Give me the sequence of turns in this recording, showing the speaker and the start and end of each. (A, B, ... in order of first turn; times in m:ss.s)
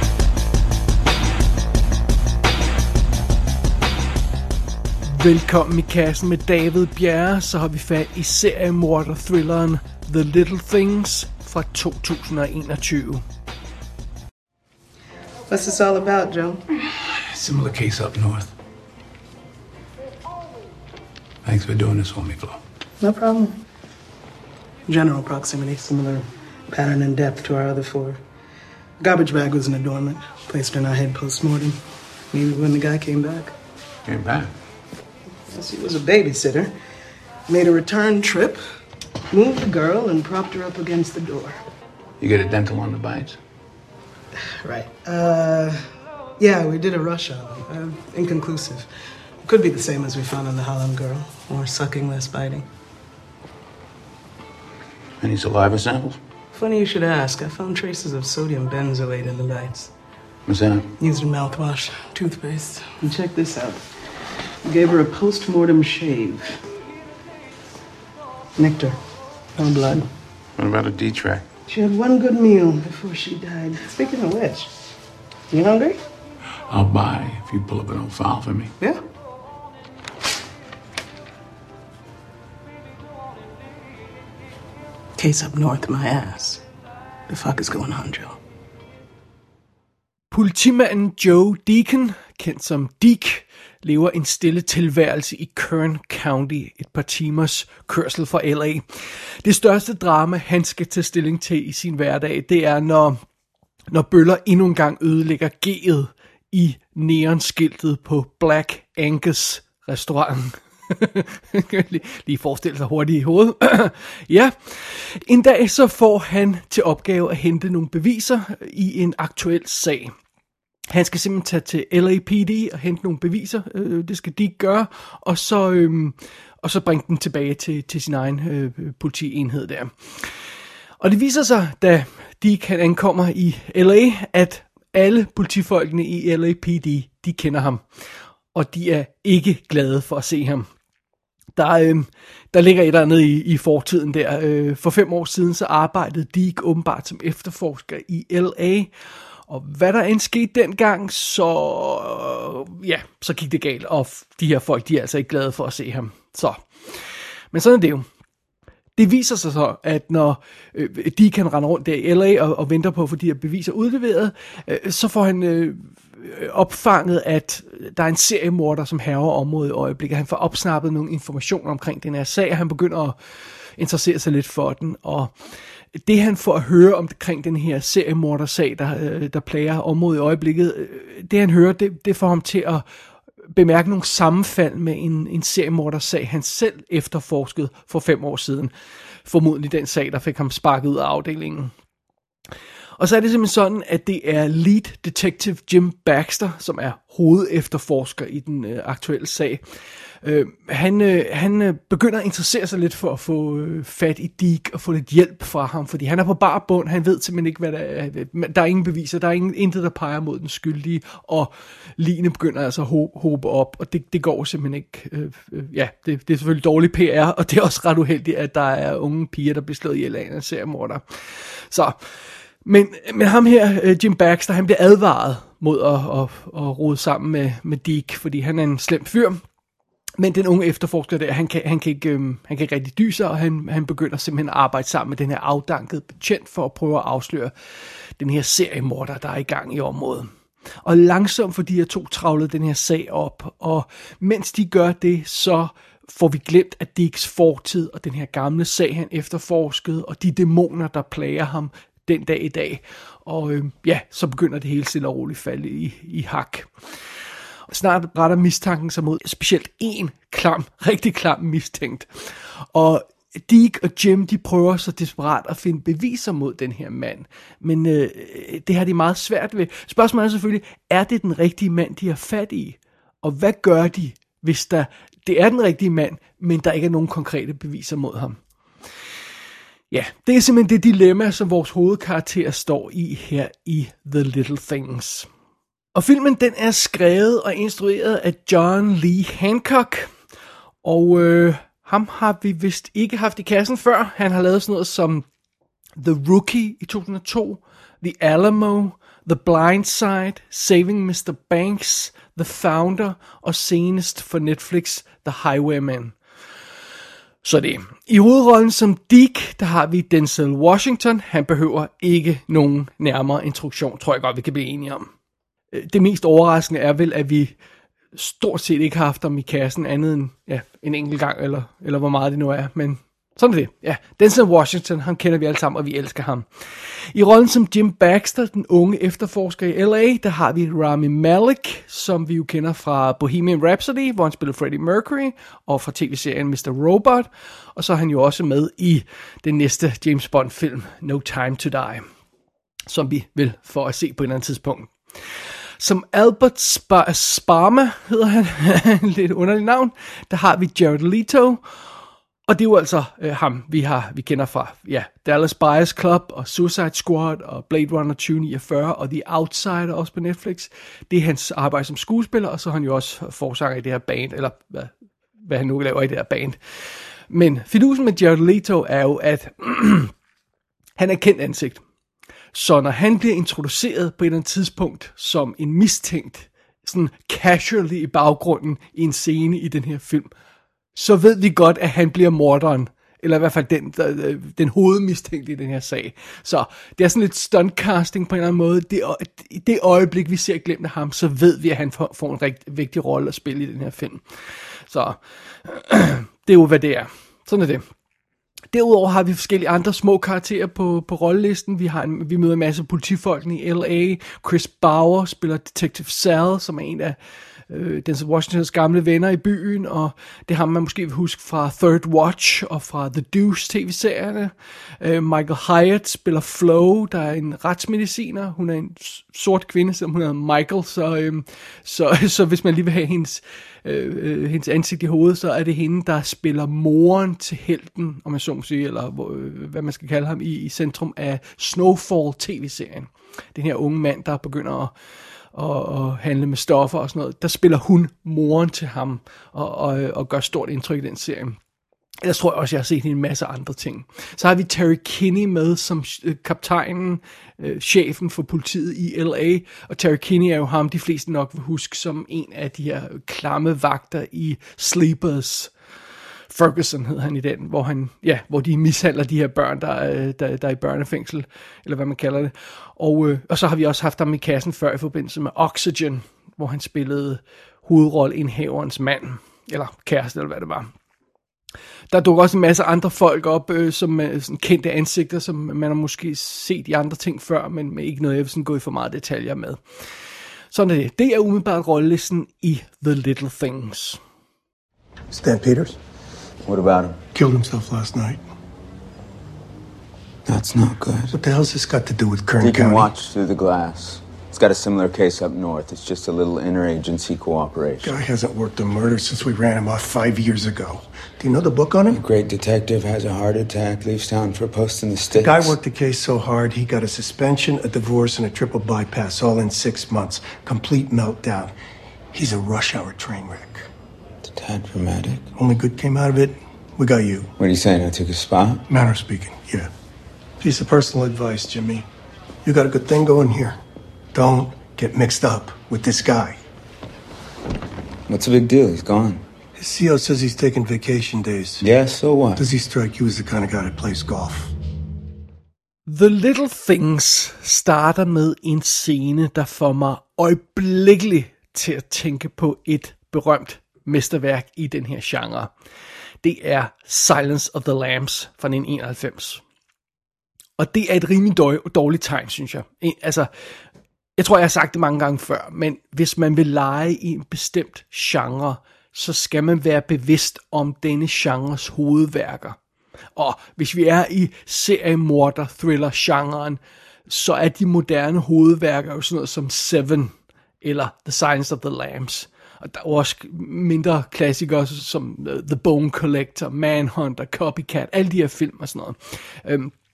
0:05.0-0:13.2 A
0:15.5-0:16.7 B
0:17.2-0:18.5 C
0:21.4-0:22.6 C
0:23.0-0:23.5 B
0:24.9-0:28.2 B
0:29.0-0:31.8 B
0:32.3-0:33.5 B
0:34.0-0:34.5 C
0:35.5-0:36.7 B
0:37.5-0:38.6 B
0:39.3-0:41.6 B
0:42.2-0:43.4 C
0:44.3-0:48.9 B
0:49.4-0:52.6 B
0:55.2-0:56.2 C
0:56.5-0:59.9 B
1:00.5-1:00.9 C
1:01.0-1:04.0 B
1:04.6-1:06.6 B
1:08.6-1:09.0 B
1:09.6-1:10.1 B
1:10.6-1:11.5 C
1:11.7-1:14.7 B
1:15.5-1:16.0 B
1:16.7-1:18.7 C
1:25.2-1:26.6 B
1:27.3-1:28.4 B
1:30.3-1:43.2 A
1:43.9-2:00.1 A
2:00.9-2:10.4 A
2:11.0-2:20.7 A
2:21.6-2:28.9 A
2:29.5-2:38.1 A
2:39.0-3:02.8 A
3:03.5-3:08.7 A
3:09.2-3:11.7 A
3:13.0-3:42.0 A
3:42.6-3:49.4 A
3:50.2-4:00.3 A
4:00.8-4:17.1 A
4:17.7-4:38.4 A
4:39.9-4:45.3 A
4:45.9-4:50.1 A
4:50.8-4:55.2 A
4:56.0-5:06.1 A
5:07.4-5:15.1 A
5:15.7-5:17.5 A
5:18.1-5:42.0 A
5:42.9-5:51.6 A
5:52.5-6:04.9 A
6:05.4-6:06.6 A
6:07.3-6:10.1 A
6:11.0-6:11.8 A
6:12.5-6:20.3 A
6:20.9-6:34.2 A
6:34.9-6:37.8 A
6:38.7-6:47.2 A
6:47.7-7:14.9 A
7:15.5-7:21.6 A
7:22.2-7:35.7 A
7:36.5-7:50.9 A
7:52.1-8:00.1 A
8:00.7-8:04.2 A
8:05.3-8:06.0 D
8:06.6-8:07.2 E
8:07.3-8:08.4 D
8:10.4-8:11.4 E
8:11.3-8:13.1 D
8:12.6-8:18.2 E
8:18.0-8:22.2 D
8:22.1-8:25.7 E
8:25.3-8:31.7 D
8:32.3-8:33.9 D
8:34.4-8:35.4 E
8:35.6-8:37.5 D
8:37.6-8:38.8 E
8:38.9-8:39.9 D
8:40.6-8:42.0 D
8:42.6-8:43.8 D
8:44.3-8:46.6 D
8:48.3-8:49.4 E
8:49.8-8:51.8 D
8:51.8-8:52.6 E
8:52.6-8:54.7 D
8:56.1-9:05.7 A
9:06.4-9:09.6 A
9:10.8-9:13.5 A
9:14.4-9:22.8 A
9:23.4-9:39.9 A